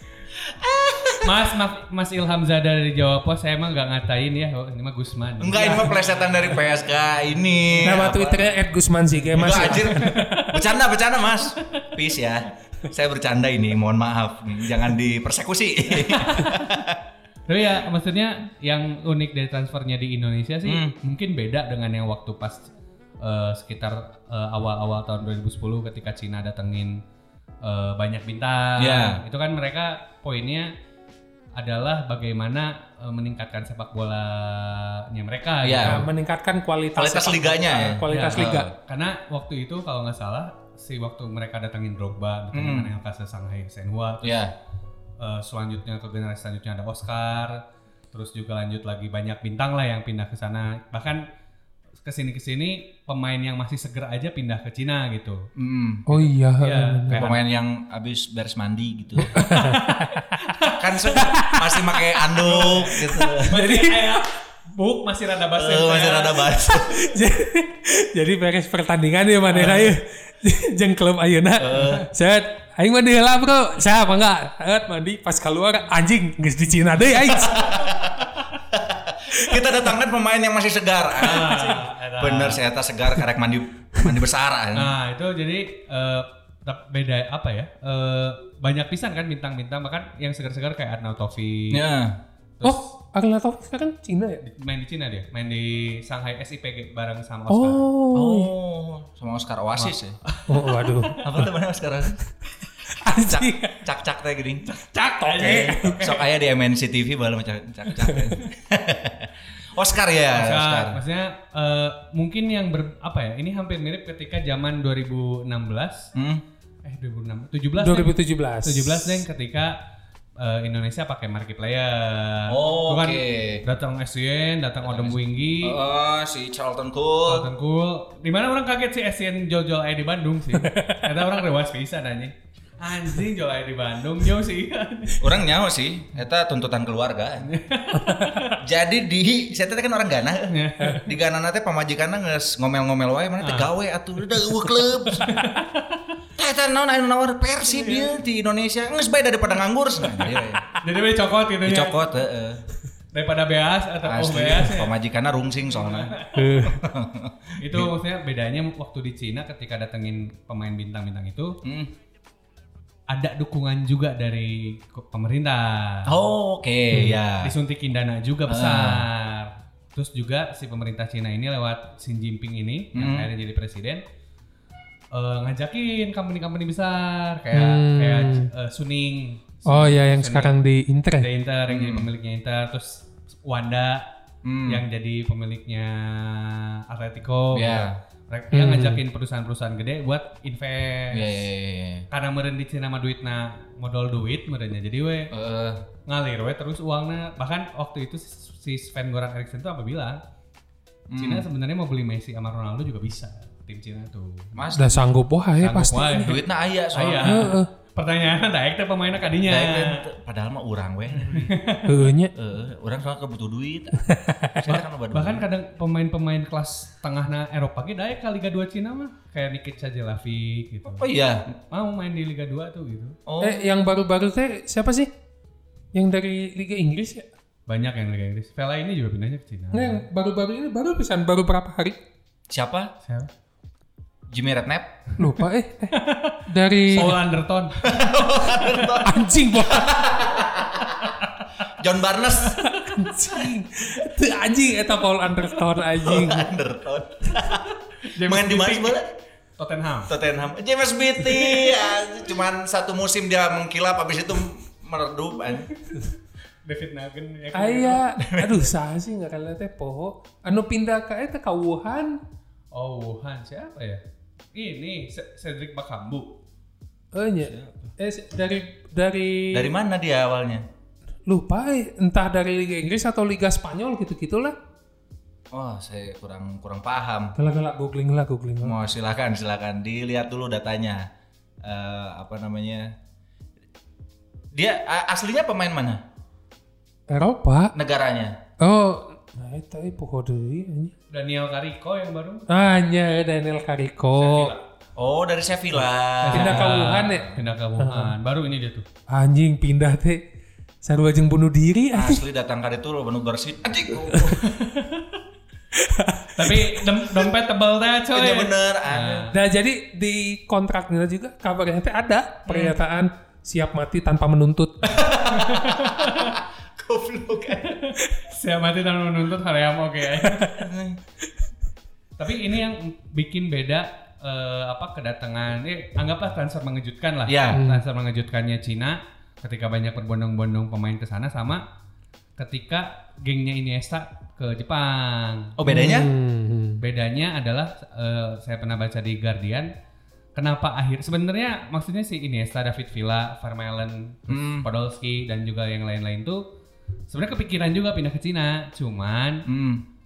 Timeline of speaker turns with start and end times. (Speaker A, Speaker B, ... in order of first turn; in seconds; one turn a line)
Speaker A: 0.4-1.4
Speaker B: 1.2-6.6
Speaker A: 5.4-8.6
Speaker C: 5.6-5.9
Speaker C: 7.8-10.4
Speaker A: 9.3-17.0
Speaker B: 9.6-10.6
Speaker B: 11.6-11.9
Speaker B: 15.9-16.9
Speaker B: 17.5-22.7
Speaker A: 20.6-20.9
Speaker B: 23.2-27.0
Speaker B: 27.6-30.7
Speaker A: 28.8-29.2
Speaker B: 31.6-36.1
Speaker A: 35.6-36.0
Speaker C: 35.8-38.7
Speaker A: 37.0-38.7
Speaker B: 38.1-44.5
Speaker A: 42.5-42.9
Speaker A: 44.2-44.5
Speaker B: 45.2-47.6
Speaker B: 48.1-51.2
Speaker B: 52.0-55.5
Speaker A: 55.5-56.0
Speaker C: 56.1-57.3
Speaker B: 56.2-57.4
Speaker A: 57.1-59.4
Speaker C: 59.3-60.2
Speaker B: 59.3-61.2
Speaker A: 60.8-63.6
Speaker C: 61.1-61.9
Speaker B: 62.4-66.5
Speaker C: 63.2-64.2
Speaker A: 65.5-67.0
Speaker C: 66.7-77.7
Speaker A: 69.5-69.9
Speaker A: 71.6-72.0
Speaker A: 77.2-84.9
Speaker B: 77.9-78.5
Speaker B: 81.2-82.6
Speaker B: 84.7-91.8
Speaker A: 91.7-92.2
Speaker B: 92.6-92.9
Speaker C: 92.6-94.4
Speaker B: 94.4-97.8
Speaker C: 97.5-98.5
Speaker A: 98.1-100.2
Speaker B: 100.3-101.5
Speaker C: 100.5-101.2
Speaker A: 101.2-102.2
Speaker C: 103.0-103.8
Speaker A: 103.1-104.6
Speaker B: 104.7-106.2
Speaker C: 105.1-106.0
Speaker A: 105.4-111.0
Speaker B: 110.3-116.1
Speaker A: 116.1-116.4
Speaker B: 116.8-119.8
Speaker C: 117.8-119.2
Speaker B: 120.4-125.8
Speaker A: 122.5-123.6
Speaker A: 124.8-127.5
Speaker B: 127.3-135.3
Speaker C: 130.6-131.0
Speaker A: 135.2-137.5
Speaker B: 137.4-138.6
Speaker C: 138.0-138.3
Speaker A: 138.6-145.3
Speaker B: 140.5-141.1
Speaker B: 143.4-143.7
Speaker B: 145.2-146.1
Speaker A: 146.4-150.6
Speaker B: 147.6-148.1
Speaker B: 150.7-152.0
Speaker A: 151.6-152.6
Speaker B: 153.1-154.9
Speaker A: 154.0-157.9
Speaker B: 155.8-156.5
Speaker C: 156.3-156.8
Speaker B: 157.6-161.6
Speaker A: 161.6-161.9
Speaker B: 163.1-166.2
Speaker A: 166.1-167.5
Speaker B: 166.9-174.0
Speaker A: 168.5-169.0
Speaker A: 172.9-173.3
Speaker B: 175.1-180.5
Speaker C: 177.5-178.5
Speaker C: 179.7-181.3
Speaker B: 181.2-184.1
Speaker A: 181.7-182.1
Speaker A: 184.4-184.8
Speaker B: 184.7-191.4
Speaker A: 187.5-188.0
Speaker C: 188.5-189.0
Speaker A: 191.1-192.1
Speaker B: 192.1-195.3
Speaker A: 195.3-195.8
Speaker B: 196.1-200.2
Speaker A: 201.1-201.5
Speaker B: 201.2-204.5
Speaker A: 204.6-205.1
Speaker C: 204.8-206.3
Speaker B: 205.6-210.0
Speaker A: 206.1-207.5
Speaker C: 207.2-207.7
Speaker A: 209.4-211.5
Speaker B: 211.2-212.1
Speaker C: 211.8-212.3
Speaker A: 212.3-215.4
Speaker C: 214.0-214.6
Speaker B: 214.7-223.2
Speaker A: 220.9-221.4
Speaker A: 223.3-223.7
Speaker C: 223.4-225.1
Speaker C: 225.9-227.3
Speaker B: 227.7-230.0
Speaker C: 229.7-232.0
Speaker A: 232.5-232.9
Speaker A: 234.3-234.9
Speaker C: 235.2-235.9
Speaker B: 235.9-238.0
Speaker C: 236.5-237.2
Speaker A: 237.8-241.0
Speaker C: 239.0-240.2
Speaker A: 241.8-242.6
Speaker C: 242.6-246.5
Speaker A: 246.0-249.1
Speaker B: 248.1-249.0
Speaker B: 249.6-250.1
Speaker A: 250.1-255.7
Speaker B: 251.2-252.0
Speaker B: 255.8-256.1
Speaker B: 256.6-258.1
Speaker C: 257.5-262.2
Speaker A: 258.2-258.7
Speaker B: 262.7-264.0
Speaker B: 264.5-266.3
Speaker C: 267.1-269.7
Speaker A: 267.4-267.9
Speaker A: 269.5-270.6
Speaker C: 271.2-274.5
Speaker A: 275.5-277.3
Speaker C: 277.4-278.8
Speaker A: 278.6-281.1
Speaker A: 281.6-282.9
Speaker A: 284.5-286.0
Speaker C: 287.1-287.7
Speaker A: 287.7-288.4
Speaker C: 288.6-290.9
Speaker B: 291.1-292.4
Speaker C: 292.5-294.5
Speaker B: 294.2-294.6
Speaker A: 295.0-297.4
Speaker B: 296.2-298.8
Speaker C: 296.3-298.1
Speaker C: 299.1-300.2
Speaker C: 300.8-302.2
Speaker A: 301.9-304.4
Speaker B: 304.4-305.2
Speaker C: 305.7-306.8
Speaker B: 306.4-309.3
Speaker A: 308.1-309.3
Speaker C: 309.3-315.0
Speaker A: 314.8-317.8
Speaker B: 315.2-316.4
Speaker B: 317.6-320.5
Speaker C: 320.2-320.5
Speaker A: 320.5-321.0
Speaker B: 322.2-331.6
Speaker A: 327.3-327.6
Speaker C: 327.5-327.8
Speaker B: 332.4-335.5
Speaker A: 335.6-336.1
Speaker C: 335.6-336.8
Speaker B: 336.8-339.7
Speaker B: 340.4-346.4
Speaker A: 344.3-344.7
Speaker B: 347.1-349.4
Speaker A: 349.5-349.8